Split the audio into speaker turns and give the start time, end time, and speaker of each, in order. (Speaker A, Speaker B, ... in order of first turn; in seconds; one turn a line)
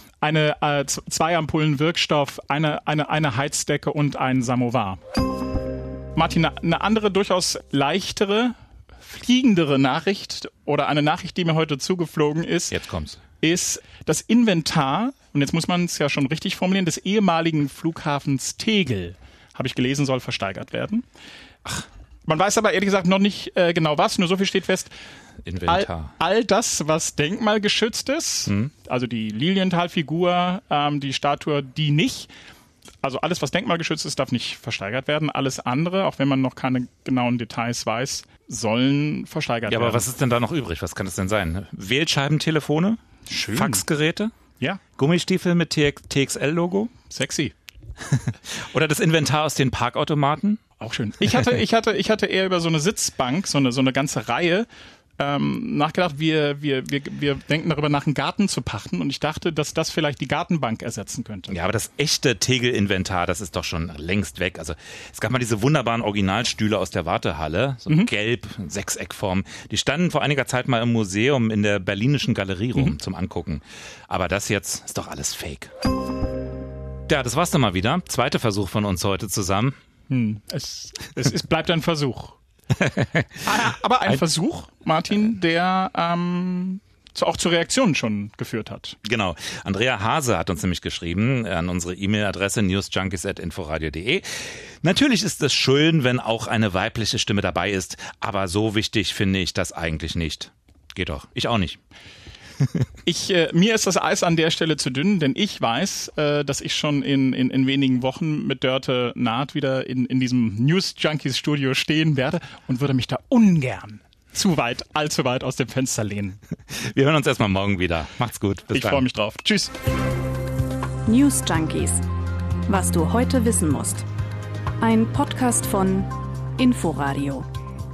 Speaker A: 0.2-5.0
Speaker A: 6.1-12.8
Speaker B: 12.7-13.2
Speaker A: 13.4-21.0
Speaker A: 22.3-24.9
Speaker B: 25.4-26.1
Speaker A: 25.6-32.3
Speaker A: 33.0-40.0
Speaker B: 39.7-44.3
Speaker A: 43.3-43.8
Speaker B: 45.0-46.9
Speaker A: 47.1-47.5
Speaker B: 48.1-50.6
Speaker A: 50.8-54.7
Speaker A: 55.2-61.5
Speaker B: 61.5-75.7
Speaker B: 77.1-79.8
Speaker A: 80.1-82.4
Speaker B: 82.8-83.3
Speaker A: 83.4-89.0
Speaker B: 89.0-94.2
Speaker B: 94.8-101.8
Speaker A: 103.0-116.4
Speaker B: 116.8-119.0
Speaker A: 118.7-119.7
Speaker C: 121.1-122.0
Speaker C: 122.7-124.0
Speaker C: 124.8-127.5